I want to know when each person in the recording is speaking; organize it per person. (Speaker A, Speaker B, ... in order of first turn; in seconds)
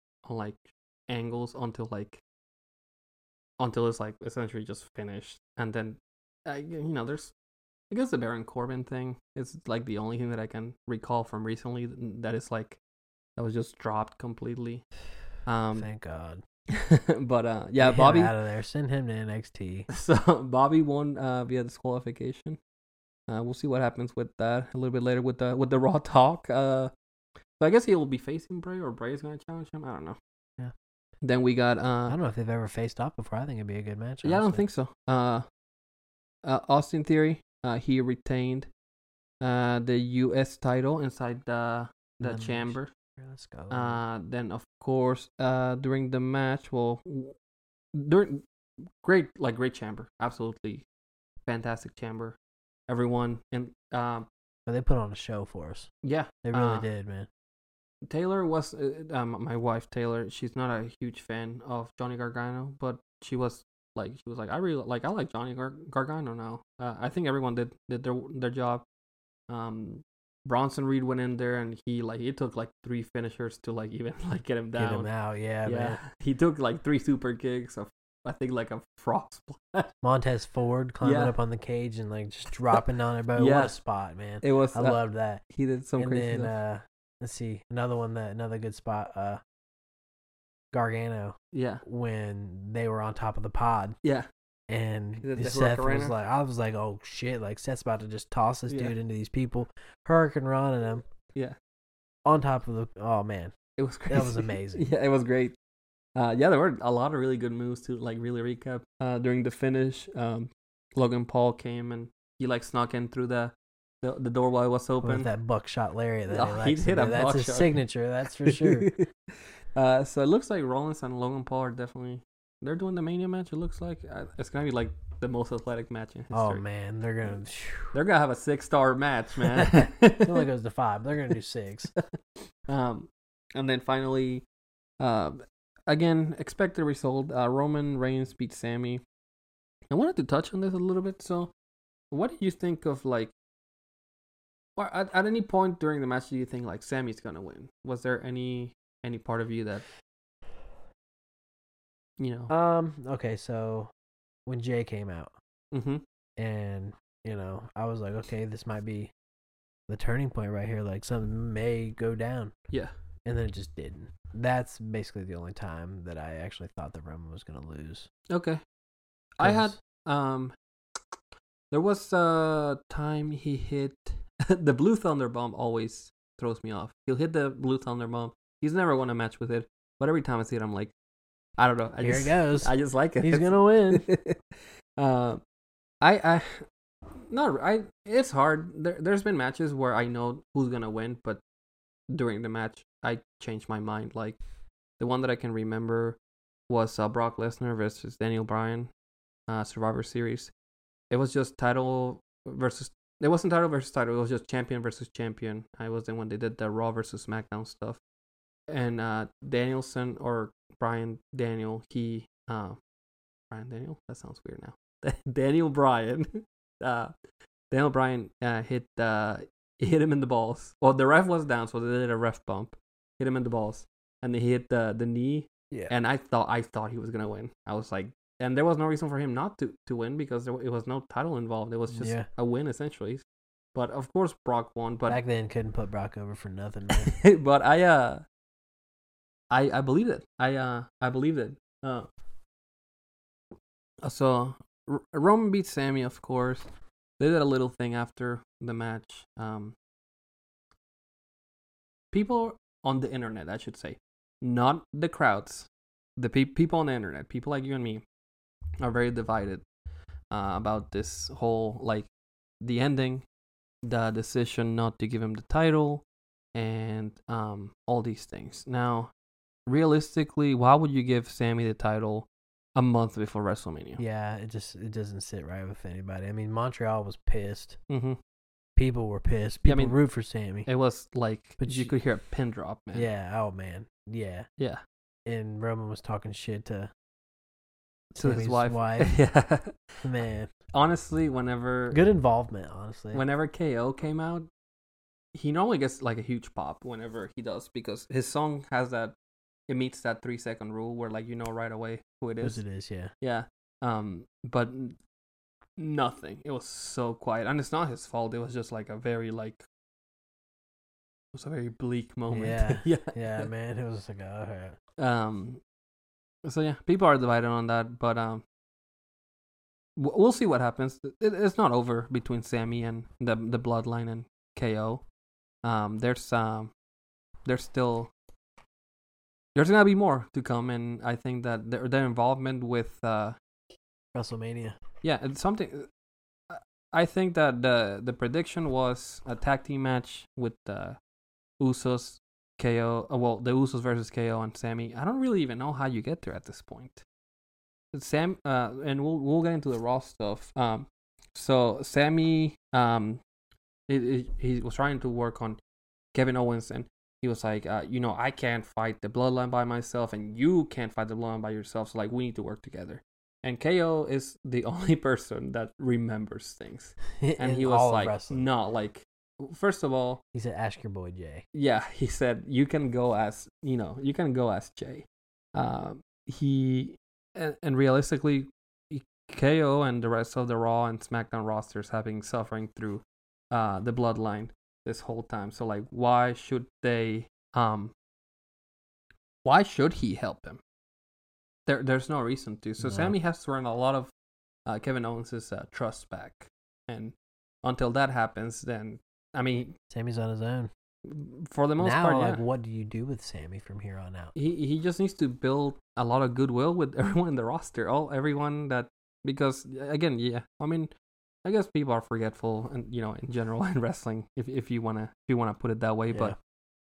Speaker A: 0.2-2.2, 3.6-7.3, 7.9-12.8, 13.4-14.8, 15.4-15.9, 16.7-18.3, 19.9-22.6, 23.3-26.9, 27.6-30.2, 31.2-32.2, 34.2-35.5, 36.4-38.7, 39.4-42.9, 43.7-47.4, 47.9-48.4, 49.0-50.8, 51.5-52.4, 52.9-54.3, 56.0-56.9, 58.0-68.8, 69.5-75.1, 75.6-79.9, 81.0-81.3, 83.3-83.8, 84.4-86.5, 91.5-91.8, 94.0-94.3, 95.2-96.1, 98.7-98.9, 103.8-105.5, 106.2-115.3, 116.3-117.7, 118.4-126.6, 127.9-130.4, 132.7-134.4, 135.0-139.0, 139.9-141.5, 142.1-143.3, 144.8-149.8, 152.2-152.5, 155.7-156.0, 168.3-168.6, 169.4-170.5, 171.7-180.9, 181.6-185.4, 186.0-186.7, 187.3-191.4, 192.1-194.4, 195.0-196.2, 196.7-198.9, 199.5-200.5, 201.1-208.0, 208.7-212.8, 213.5-217.1, 217.7-235.2, 236.9-238.2, 239.5-242.1, 244.0-246.7, 247.2-249.8, 252.1-258.0, 258.8-259.6, 260.3-262.1, 262.6-263.2, 263.8-269.1, 269.7-274.0, 277.9-278.2, 279.6-280.0, 280.6-283.1, 288.1-289.9, 290.7-292.0, 293.1-294.5, 295.3-299.1, 299.7-302.6, 303.2-305.0, 305.8-309.6, 311.3-313.5, 315.0-315.6, 316.4-318.4, 319.9-325.0, 325.6-326.7, 327.4-328.1, 329.5-333.4, 335.0-335.9, 336.5-341.0, 341.6-347.0, 347.9-353.2, 353.9-355.6, 356.1-370.2, 371.5-387.9, 389.4-390.6, 391.6-394.1, 394.6-399.8, 401.1-402.4, 404.3-410.9, 411.4-416.3
Speaker B: 15.7-16.4, 17.8-19.9, 32.1-34.6, 42.2-44.0, 54.7-55.9, 56.4-57.3, 74.8-76.0, 80.0-85.4, 86.0-89.4, 90.7-94.0, 94.7-101.0, 102.2-103.5, 104.1-104.9, 115.0-118.9, 126.3-127.9, 129.4-131.9, 152.5-153.9, 154.4-155.3, 156.4-159.1, 159.9-162.5, 163.2-168.1, 169.4-169.7, 182.0-184.1, 231.9-232.3, 235.1-237.1, 274.0-277.8, 278.8-280.7, 281.6-281.9, 282.9-284.5, 285.2-286.9, 288.1-289.1, 290.0-290.5, 291.9-293.2, 302.4-303.1, 312.3-314.8, 334.1-334.8, 367.2-368.4, 370.3-371.4, 392.8-393.1, 399.9-400.7, 401.8-404.3